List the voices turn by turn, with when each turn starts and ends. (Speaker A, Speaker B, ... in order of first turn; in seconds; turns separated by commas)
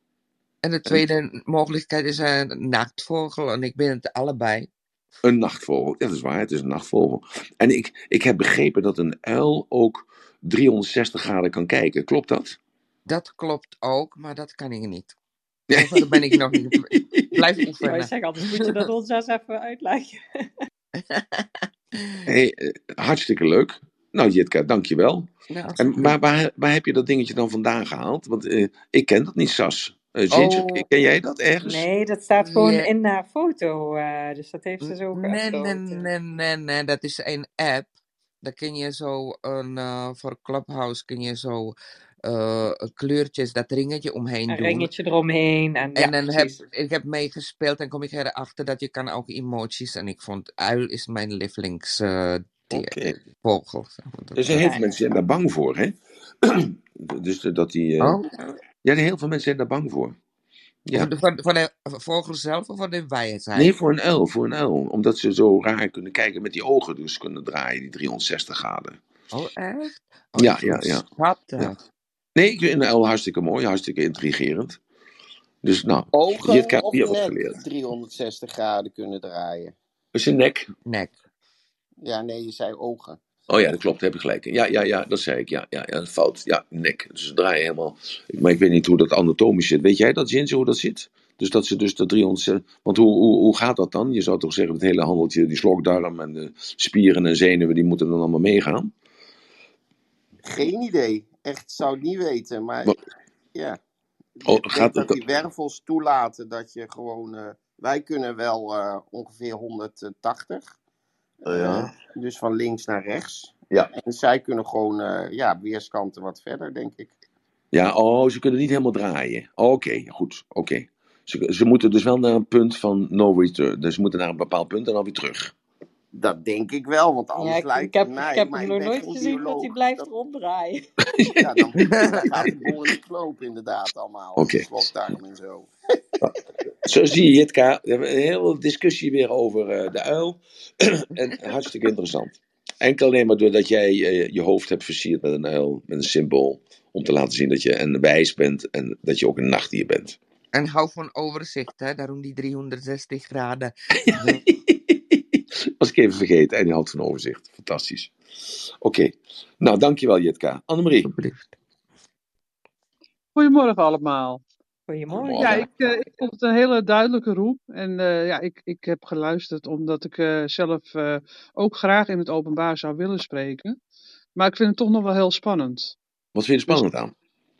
Speaker A: 0.6-4.7, Speaker B: 5.2-12.6, Speaker A: 13.1-15.2, Speaker B: 15.7-17.4, Speaker A: 15.7-18.9, Speaker C: 17.8-20.6, Speaker A: 21.0-22.2, Speaker B: 22.2-31.9, Speaker A: 25.5-26.2, Speaker A: 30.3-30.9, Speaker C: 31.6-36.1, Speaker A: 32.4-32.9, Speaker A: 34.8-44.9, Speaker C: 44.5-46.6, Speaker A: 46.0-54.7, Speaker B: 52.7-53.2, Speaker B: 54.4-58.2, Speaker C: 54.6-54.9, Speaker A: 58.0-58.5, Speaker B: 58.8-60.2, Speaker B: 60.9-61.1, Speaker A: 60.9-63.7, Speaker B: 63.5-69.0, Speaker A: 69.3-71.8, Speaker B: 70.4-71.0, Speaker B: 72.3-74.8, Speaker B: 75.6-77.6, Speaker D: 76.2-79.7, Speaker B: 80.1-80.7, Speaker A: 80.8-81.2, Speaker D: 82.0-83.2, Speaker B: 83.5-98.9, Speaker D: 100.4-102.9, Speaker D: 103.5-103.8, Speaker D: 104.4-110.7, Speaker B: 104.5-105.2, Speaker B: 111.4-111.9, Speaker D: 111.4-117.1, Speaker B: 117.7-125.5, Speaker D: 126.1-130.0, Speaker C: 127.3-130.9, Speaker B: 131.0-132.7, Speaker D: 131.3-135.7, Speaker A: 131.8-132.3, Speaker B: 134.4-134.7, Speaker B: 136.2-150.2, Speaker A: 150.5-154.4, Speaker B: 153.9-158.1, Speaker B: 158.8-161.1, Speaker A: 161.0-161.5, Speaker E: 163.3-164.4, Speaker C: 164.9-165.7, Speaker B: 165.1-165.7, Speaker E: 165.3-173.8, Speaker E: 174.3-175.9, Speaker B: 176.3-177.1